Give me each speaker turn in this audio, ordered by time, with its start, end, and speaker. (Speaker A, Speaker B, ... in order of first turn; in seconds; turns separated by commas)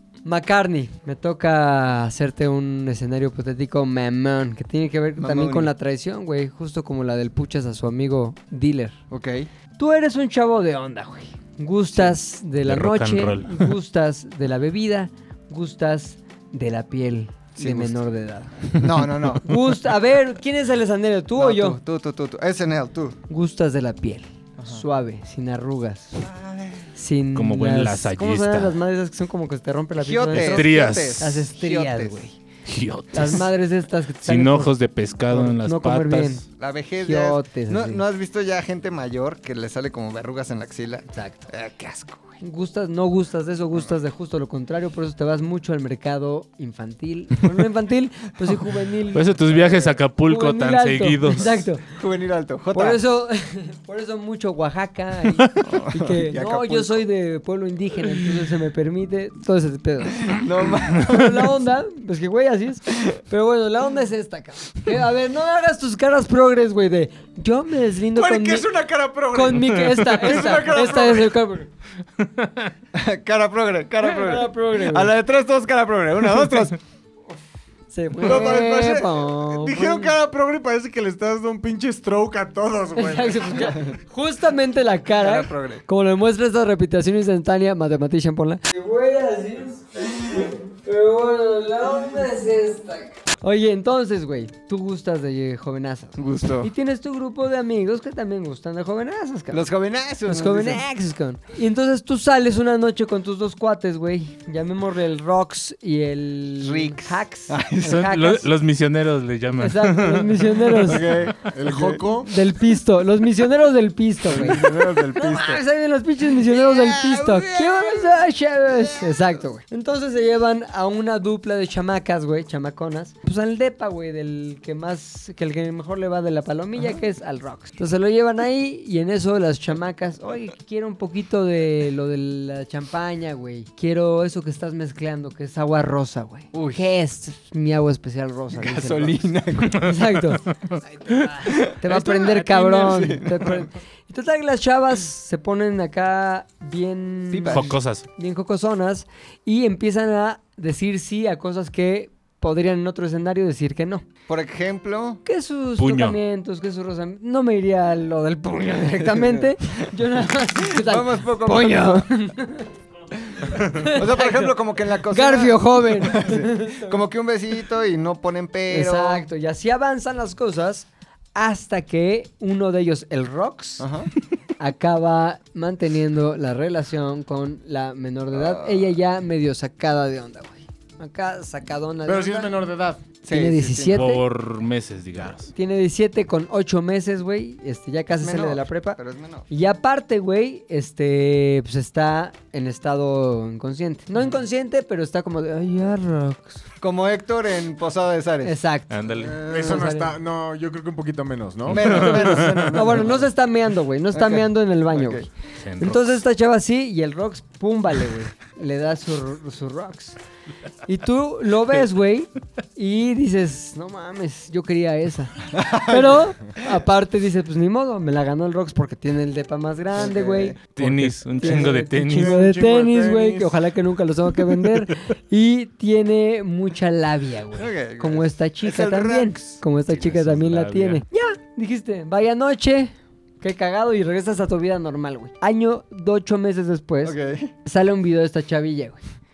Speaker A: 0.2-9.0, Speaker B: 5.2-5.7, Speaker B: 9.1-9.5, Speaker A: 9.8-18.7, Speaker C: 12.7-13.8, Speaker B: 17.6-18.0, Speaker B: 18.7-19.6, Speaker A: 19.4-21.8, Speaker B: 21.4-23.2, Speaker A: 23.3-26.2, Speaker B: 24.6-24.8, Speaker B: 26.2-26.9, Speaker A: 26.9-32.4, Speaker C: 27.3-28.8, Speaker B: 30.0-32.3, Speaker C: 30.3-31.3, Speaker C: 32.7-33.5, Speaker A: 33.1-34.7, Speaker C: 34.2-36.4, Speaker A: 35.3-36.5, Speaker B: 36.6-42.4, Speaker A: 37.0-38.0, Speaker A: 41.1-41.5, Speaker A: 42.4-51.9, Speaker C: 49.1-51.7, Speaker B: 52.0-53.0, Speaker A: 52.7-60.4, Speaker B: 55.6-57.0, Speaker B: 60.1-61.5, Speaker A: 60.9-68.7, Speaker D: 68.1-71.4, Speaker A: 69.3-71.7, Speaker C: 69.9-70.3, Speaker C: 72.2-72.7, Speaker B: 72.9-76.8, Speaker A: 74.0-75.1, Speaker A: 77.9-80.1, Speaker D: 78.2-83.8, Speaker A: 83.0-99.7, Speaker B: 85.2-85.8, Speaker B: 96.2-96.7, Speaker B: 99.5-100.8, Speaker A: 100.3-108.5, Speaker B: 106.6-108.1, Speaker C: 107.8-111.1, Speaker A: 109.6-111.1, Speaker B: 110.8-112.0, Speaker D: 111.3-112.3, Speaker A: 112.2-140.4, Speaker B: 114.3-115.6, Speaker B: 116.3-119.3, Speaker B: 136.5-136.8, Speaker B: 138.5-140.0, Speaker C: 140.7-141.3, Speaker A: 141.0-154.1, Speaker B: 141.4-143.7, Speaker C: 142.5-143.2, Speaker B: 147.3-147.8, Speaker C: 147.5-148.1, Speaker B: 154.3-155.2, Speaker A: 155.2-162.7, Speaker C: 155.8-156.2, Speaker B: 159.1-159.5, Speaker B: 160.6-162.1, Speaker B: 163.3-169.3, Speaker A: 163.5-164.5, Speaker A: 165.1-167.0, Speaker A: 168.7-173.9, Speaker B: 173.8-174.1, Speaker A: 174.6-182.5, Speaker B: 178.3-178.9, Speaker D: 182.1-183.0, Speaker B: 183.2-184.1, Speaker A: 183.3-184.2, Speaker C: 183.9-185.5, Speaker A: 185.5-189.0, Speaker B: 188.2-189.5, Speaker A: 189.5-196.6, Speaker B: 196.8-198.6, Speaker A: 198.4-200.1, Speaker C: 198.9-199.4, Speaker B: 199.2-199.8, Speaker D: 199.4-202.4, Speaker C: 201.7-202.8, Speaker B: 201.7-203.3, Speaker A: 202.7-205.3, Speaker B: 204.1-205.3, Speaker C: 205.6-206.2, Speaker A: 205.8-210.2, Speaker A: 210.9-220.6, Speaker B: 215.5-216.3, Speaker B: 219.9-220.6, Speaker C: 220.8-222.4, Speaker D: 220.8-223.6, Speaker A: 221.4-239.0, Speaker B: 227.5-229.6, Speaker C: 229.9-231.0, Speaker B: 237.0-237.5